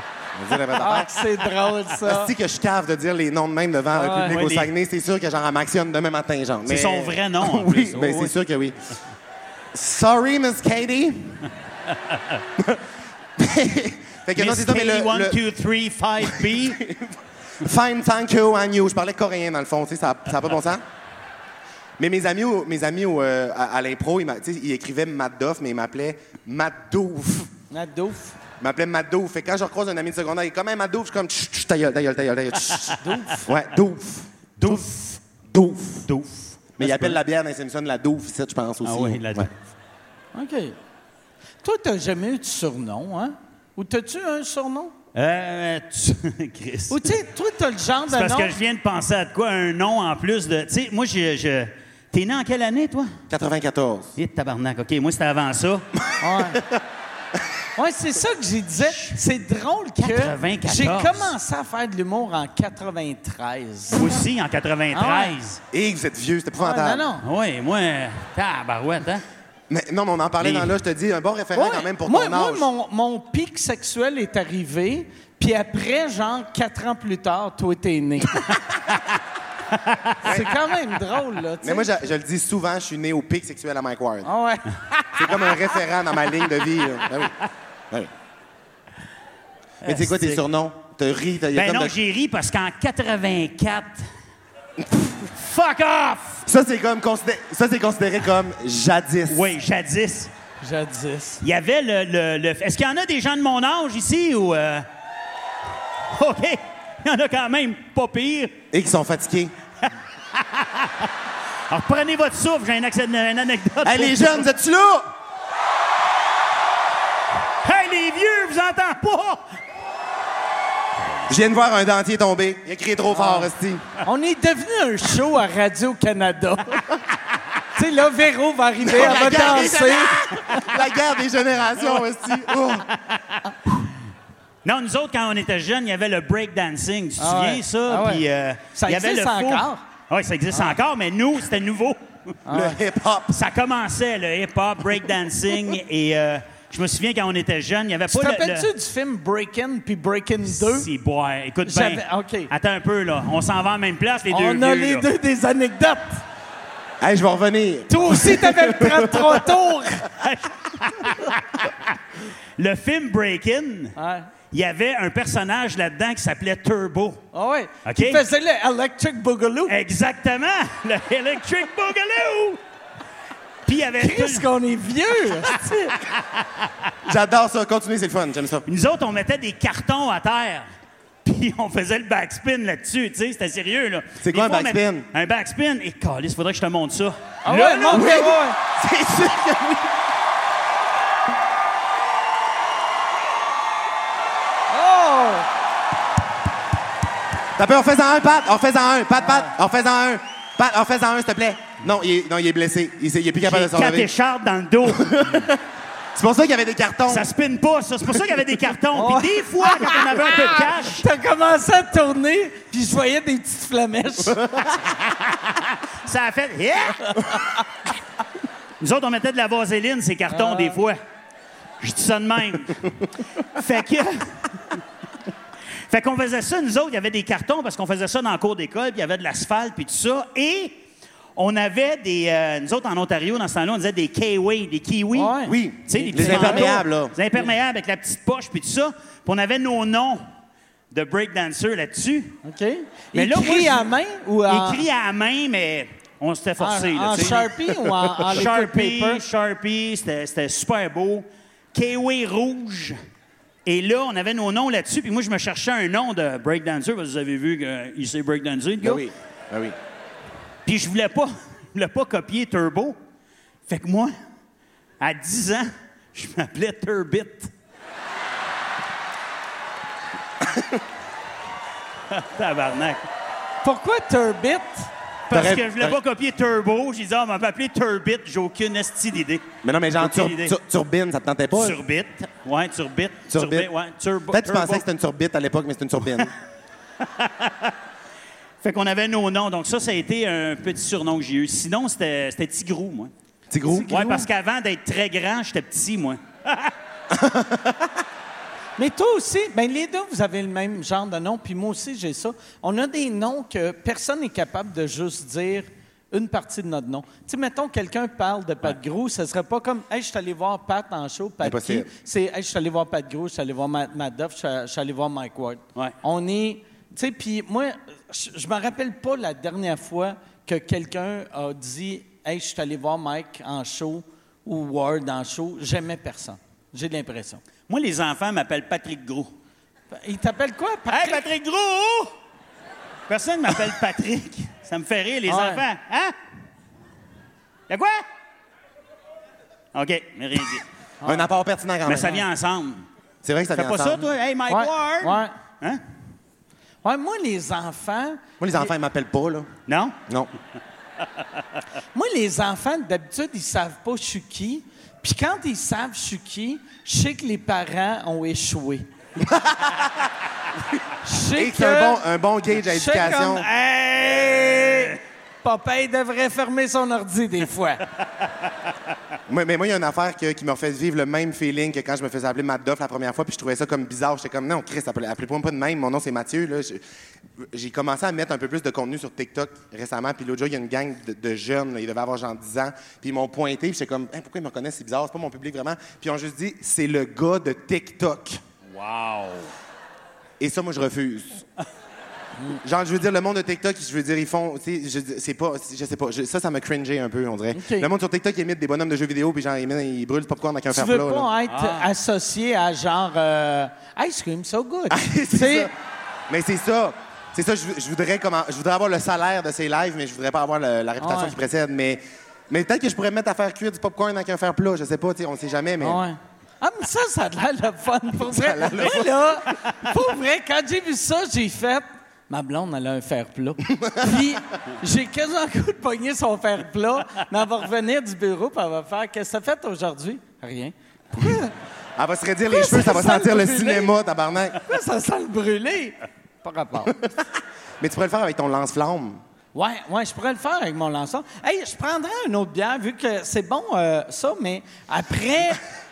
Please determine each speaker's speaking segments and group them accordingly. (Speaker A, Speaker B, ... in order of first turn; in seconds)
Speaker A: 0.3-1.1, 2.0-8.7, 9.7-11.4, 12.6-12.8, 13.4-15.4, 16.3-20.8, 22.0-27.5, 28.6-34.9, 35.5-36.1, 36.8-39.5, 53.3-54.1, 65.7-67.1, 69.7-72.7, 80.2-80.5, 81.6-84.3, 85.2-87.3, 89.8-92.0, 96.5-99.5, 108.7-109.5, 113.8-115.1, 121.3-123.8, 128.8-132.9, 142.5-143.3, 157.0-159.4, 177.0-178.7, 184.2-185.1, 187.9-189.9, 197.6-204.1, 204.9-205.6, 206.1-207.3, 235.4-237.1, 258.8-259.7, 270.4-270.8, 275.3-276.0, 279.6-281.8, 283.3-283.7, 284.3-286.3, 293.5-293.9, 297.1-297.9, 311.4-311.9, 341.0-342.2, 343.2-344.1, 348.4-349.5, 359.2-359.9, 361.3-363.4, 369.3-376.8, 377.4-388.4, 390.4-391.4, 392.6-401.3, 404.9-405.7, 406.3-416.0, 418.2-419.4, 423.8-424.1, 432.0-434.6, 436.8-437.3, 437.8-439.2
Speaker B: 0.8-2.3, 27.7-28.4, 33.0-33.5, 40.3-40.8, 41.6-44.9, 46.9-48.6, 56.2-56.6, 57.8-64.0, 64.9-65.3, 66.6-67.2, 71.5-78.5, 80.2-82.0, 84.2-85.2, 100.6-101.4, 123.1-123.5, 124.0-126.8, 127.7-130.6, 137.2-139.8, 142.4-142.8, 148.1-150.9, 151.6-152.5, 154.3-156.2, 157.9-160.1, 163.9-164.3, 167.3-169.7, 174.0-176.0, 187.4-188.6, 194.7-195.5, 208.9-214.4, 220.3-220.8, 235.1-236.8, 242.4-244.8, 246.6-249.2, 273.6-274.9, 293.7-294.2, 298.8-327.4, 329.9-331.2, 335.3-335.6, 344.5-345.3, 346.8-348.7, 351.9-358.9, 361.0-362.0, 362.6-367.8, 397.5-397.9, 400.7-405.7, 411.0-411.4, 415.8-431.5, 432.5-433.9, 434.6-436.9, 439.5-445.6
Speaker C: 4.0-4.7, 6.7-8.3, 14.3-16.8, 34.6-35.0, 36.0-37.2, 38.8-39.5, 45.1-47.1, 48.1-53.1, 54.2-55.9, 58.8-59.1, 60.0-61.3, 63.9-65.6, 67.2-69.2, 70.4-70.7, 89.8-90.4, 91.5-94.0, 95.4-96.4, 99.3-100.3, 101.4-104.8, 106.1-108.5, 110.3-111.0, 111.7-114.5, 117.6-119.4, 134.6-142.0, 143.3-148.7, 150.4-155.1, 160.2-161.7, 162.6-163.9, 164.5-167.2, 167.8-168.2, 169.7-172.6, 173.7-174.5, 176.1-176.4, 178.7-180.7, 181.2-188.2, 203.4-205.5, 207.1-211.1, 215.1-217.3, 218.8-221.0, 221.8-222.9, 223.5-224.5, 225.9-230.8, 231.3-240.2, 240.9-242.4, 243.1-243.9, 244.5-247.5, 248.3-252.9, 253.7-259.0, 260.6-262.9, 263.7-264.1, 265.0-267.5, 272.1-273.0, 275.3-279.5, 280.0-280.6, 281.5-284.8, 287.2-287.7, 288.6-293.1, 293.9-296.7, 327.7-329.3, 330.9-332.1, 333.1-336.1, 337.7-338.0, 339.7-340.6, 341.8-342.9, 343.5-345.8, 349.7-349.9, 388.7-389.5, 401.5-401.9